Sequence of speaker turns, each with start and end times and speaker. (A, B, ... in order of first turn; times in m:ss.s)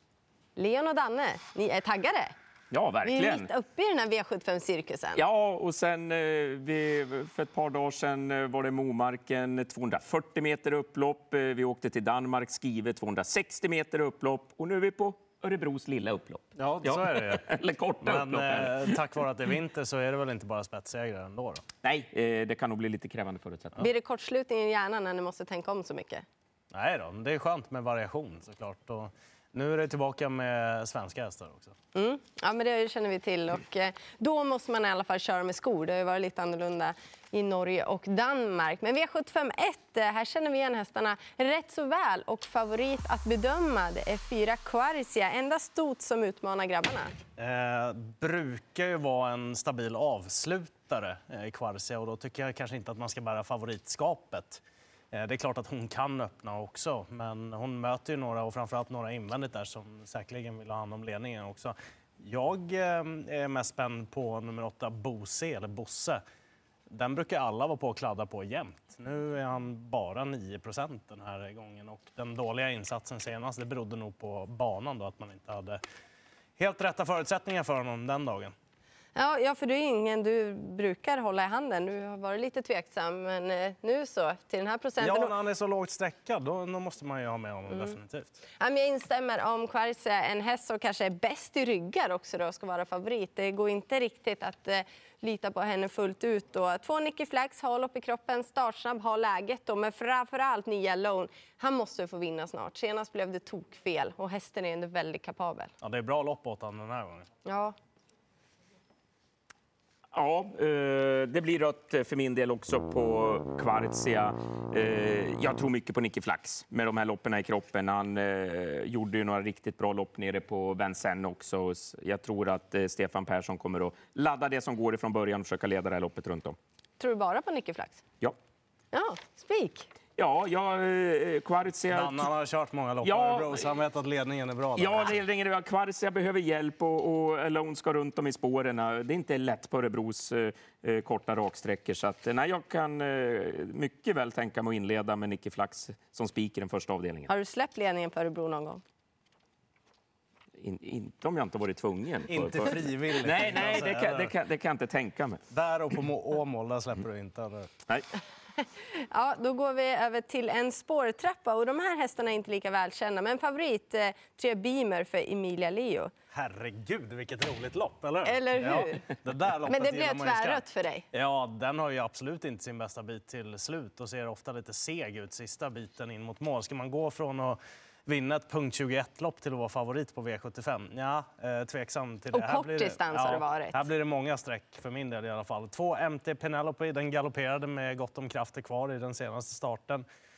0:00.6-0:02.3 A
0:02.7-0:03.5 B
0:03.0-0:05.2 A
0:05.2-0:19.0 B
0:16.6-0:17.4 C
0:18.0-0:21.6 C
0:21.8-0:23.8 B
0:23.8-0:26.2 A
0:26.7-0:31.7 C
0:31.9-0:47.1 A
0:47.4-1:06.2 C
1:06.9-1:15.8 C
1:16.6-1:18.5 C
1:19.2-1:25.3 A
1:25.0-1:28.4 C
1:28.6-1:45.7 A
1:45.8-1:47.3 C
1:47.4-1:47.8 A
1:50.1-2:06.6 B
2:07.0-2:08.0 A
2:08.9-2:09.9 A
2:10.2-2:12.3 B
2:11.9-2:15.2 C
2:13.0-2:13.6 B
2:14.8-2:27.3 B
2:27.3-2:28.8 A
2:30.6-2:35.4 B
2:32.3-2:34.4 C
2:35.5-2:37.7 C
2:38.6-2:46.1 A
2:46.3-3:10.0 C
2:48.2-2:49.1 A
2:49.7-2:51.0 A
3:02.3-3:03.8 A